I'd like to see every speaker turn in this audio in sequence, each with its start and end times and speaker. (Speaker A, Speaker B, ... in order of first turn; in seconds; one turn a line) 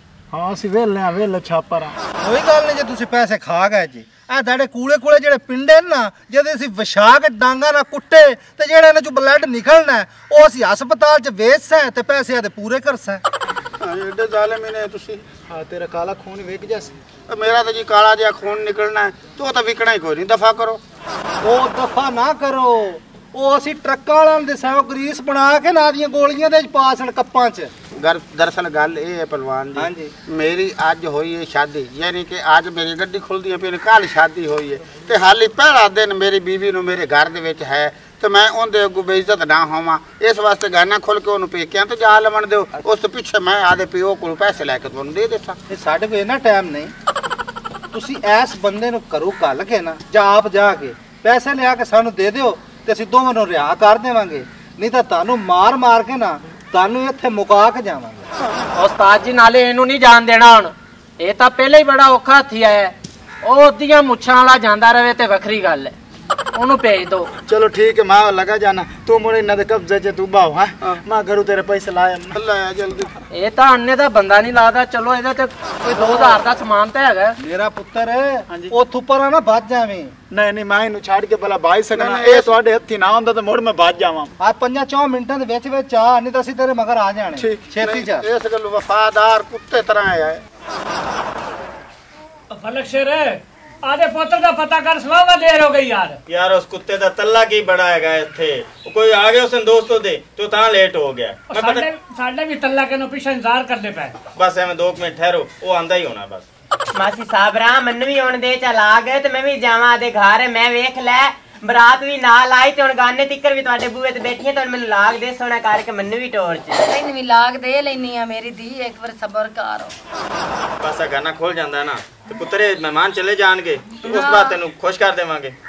Speaker A: 0.3-1.9
Speaker B: 2.2-13.2
Speaker C: 13.8-15.2
Speaker A: 15.5-16.9
Speaker C: 17.3-20.8
Speaker B: 21.4-27.7
Speaker C: 28.0-45.6
Speaker B: 29.7-30.1
Speaker B: 45.7-46.9
Speaker B: 47.9-58.3
Speaker D: 58.7-65.9
Speaker D: 66.5-67.3
Speaker A: 67.5-72.4
Speaker C: 72.3-73.1
Speaker D: 73.3-77.3
Speaker B: 76.0-76.3
Speaker B: 77.4-80.1
Speaker A: 80.3-84.3
Speaker C: 81.9-82.5
Speaker B: 84.4-88.2
Speaker C: 87.4-90.4
Speaker E: 92.5-96.2
Speaker F: 96.3-101.9
Speaker E: 101.5-104.1
Speaker F: 104.3-106.5
Speaker G: 106.9-116.8
Speaker H: 116.8-119.9
Speaker F: 120.8-125.5
Speaker H: 124.0-124.6